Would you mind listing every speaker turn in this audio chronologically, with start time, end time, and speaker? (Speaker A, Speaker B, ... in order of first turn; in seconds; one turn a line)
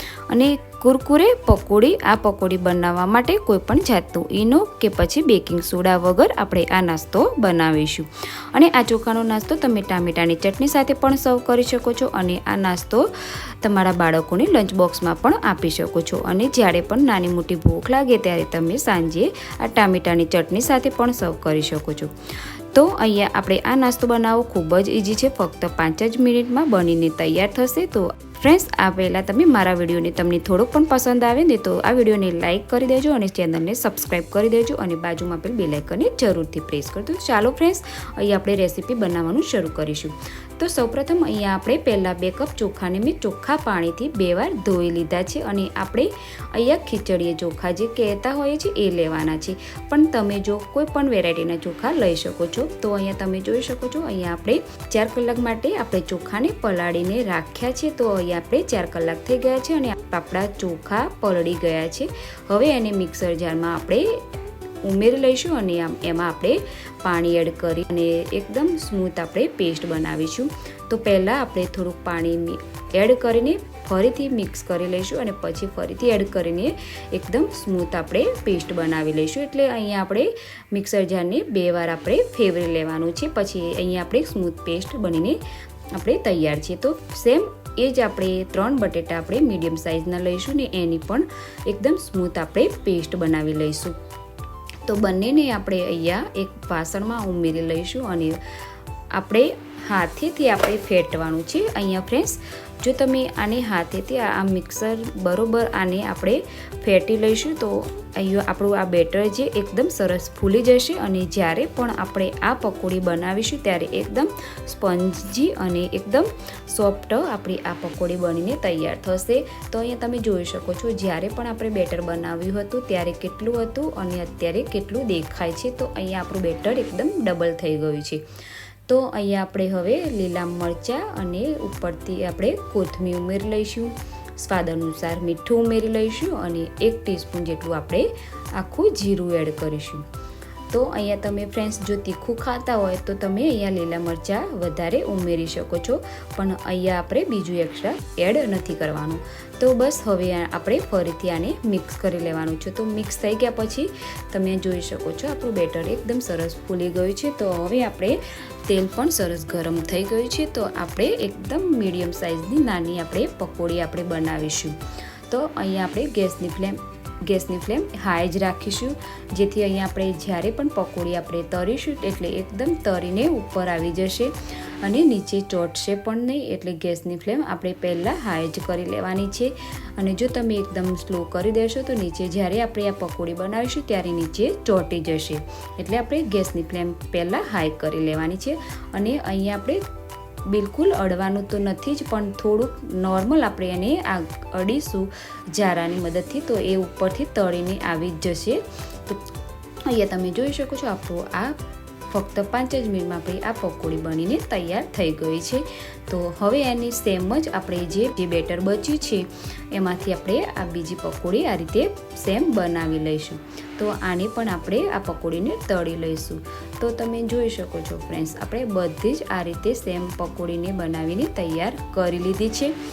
Speaker A: 0.3-13.1
Speaker A: 13.6-22.1
Speaker A: 22.7-64.1
Speaker A: 64.8-85.4
Speaker A: 86.0-94.0
Speaker A: 94.9-98.4
Speaker A: 99.1-128.2
Speaker A: 128.9-140.1
Speaker A: 140.7-164.8
Speaker A: 165.3-189.8
Speaker A: 190.5-199.2
Speaker A: 199.9-201.6
Speaker A: 202.1-222.8